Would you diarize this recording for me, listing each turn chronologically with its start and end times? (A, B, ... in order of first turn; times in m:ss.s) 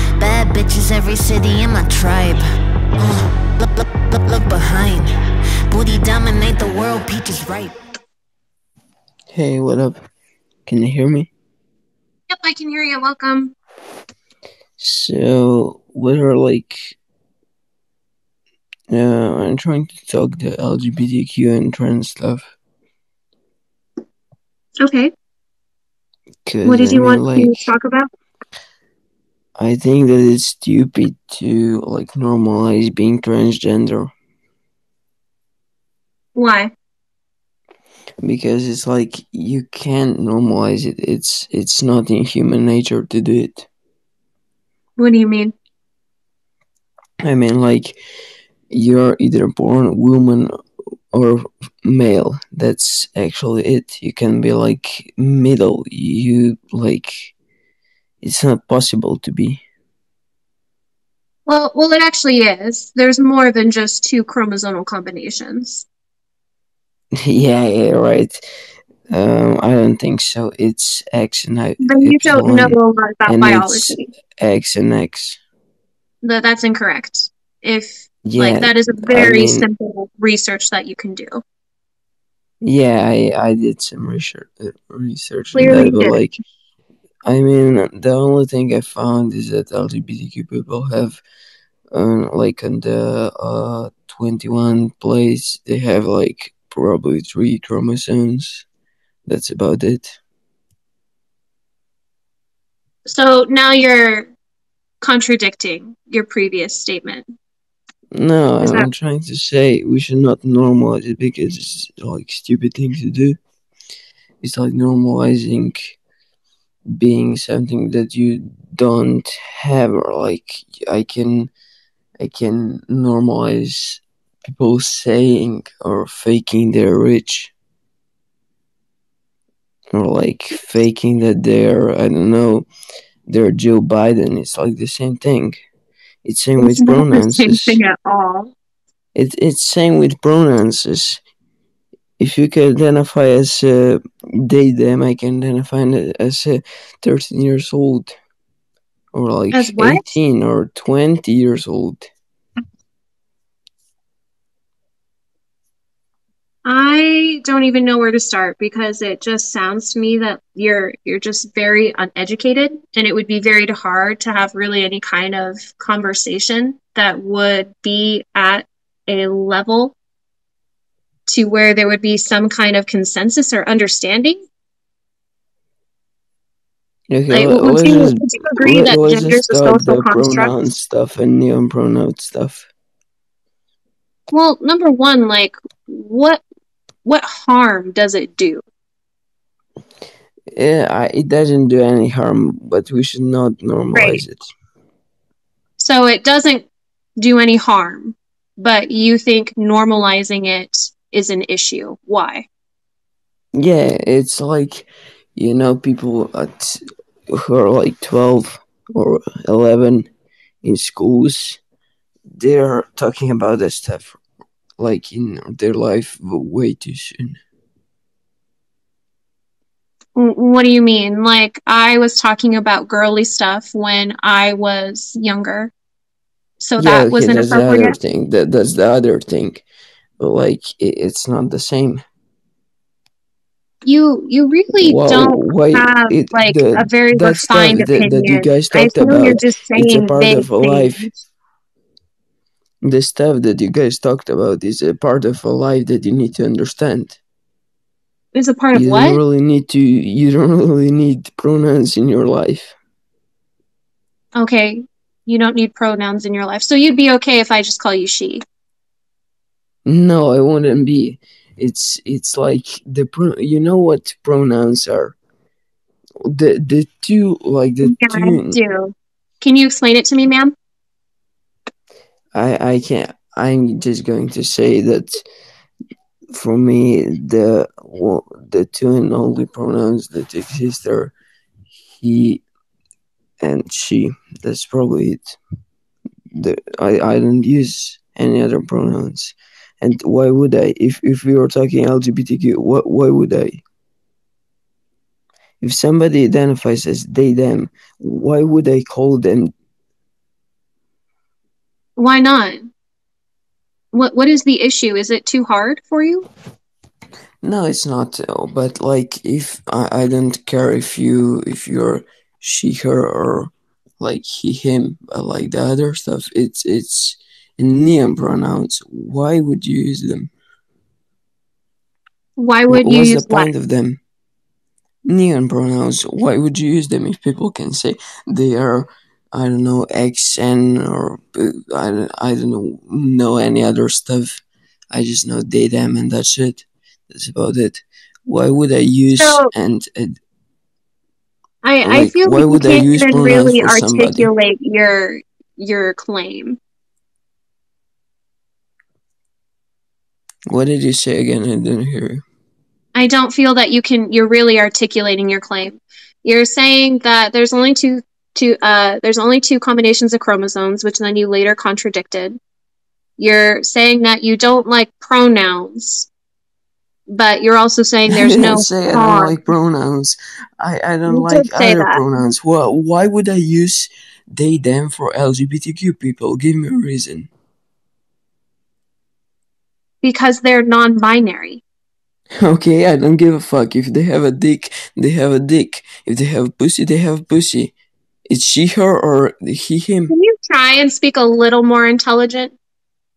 0:00.2-0:02.4 A
0:03.0-0:05.2 A
0:05.7-0:07.7 A
0:09.3-0:10.0 B
0:10.6-0:11.3 B
0:12.3-0:13.5 C
0:14.8-0:17.0 B
0:18.9-0:22.4 B
0:24.8-0:25.1 C
0:26.5-0:27.7 B
0:26.6-0:28.1 C
0:29.6-0:34.1 B
0:36.3-0:36.7 C
0:38.2-0:43.7 B
0:45.0-0:45.5 C
0:47.2-0:48.0 B
0:48.7-0:50.5 B
0:51.1-0:57.3 B
0:58.2-0:59.6 B
1:01.4-1:05.9 C
1:07.2-1:08.4 B
1:09.1-1:15.4 B
1:11.8-1:14.0 C
1:16.2-1:21.4 C
1:18.2-1:19.7 B
1:22.6-1:26.4 B
1:25.5-1:26.2 C
1:27.2-1:31.2 B
1:31.9-1:38.7 B
1:39.3-1:40.1 B
1:43.0-1:44.3 C
1:45.0-1:47.3 C
1:48.1-1:53.4 B
1:48.6-1:48.9 C
1:54.4-1:56.0 B
1:56.9-2:01.5 B
2:02.2-2:07.5 B
2:09.9-2:12.7 B
2:13.3-2:15.5 B
2:16.2-2:17.8 B
2:16.6-2:18.5 C
2:19.2-2:21.2 B
2:22.2-2:28.1 B
2:29.1-2:32.1 B
2:29.5-2:30.0 C
2:36.7-2:50.0 C
2:51.3-2:54.4 C
2:57.1-3:02.7 B
2:57.3-3:00.5 C
3:04.3-3:06.4 C
3:07.0-3:08.6 C
3:10.6-3:14.4 B
3:13.9-3:14.2 C
3:15.8-3:22.5 C
3:23.5-3:30.1 B
3:30.6-3:31.6 B
3:32.4-3:34.2 B
3:34.8-3:37.4 B
3:40.2-3:45.7 C
3:46.6-3:48.0 C
3:46.8-3:49.6 B
3:50.2-3:52.0 B
3:53.8-4:01.2 C
3:54.8-4:01.1 B
4:02.8-4:07.2 B
4:08.3-4:09.2 C
4:08.7-4:12.8 B
4:14.3-4:18.4 C
4:19.9-4:25.2 B
4:26.2-4:28.6 B
4:27.8-4:30.5 C
4:32.3-4:35.2 B
4:36.3-4:41.1 B
4:42.0-4:42.4 B
4:43.4-4:45.4 B
4:46.3-4:53.6 B
4:55.6-4:59.5 B
5:02.0-5:02.7 C
5:03.9-5:06.3 C
5:07.4-5:20.3 B
5:22.4-5:23.5 C
5:22.7-5:24.0 B
5:25.1-5:40.2 B
5:39.1-5:39.5 C
5:41.6-5:46.6 C
5:41.8-5:44.3 B
5:50.5-5:52.2 B
5:53.0-6:02.4 C
6:03.2-6:06.1 C
6:07.1-6:09.4 C
6:08.1-6:17.3 B
6:11.1-6:12.0 C
6:20.0-6:21.6 C
6:22.4-6:27.7 B
6:28.3-6:30.1 B
6:30.1-6:32.6 C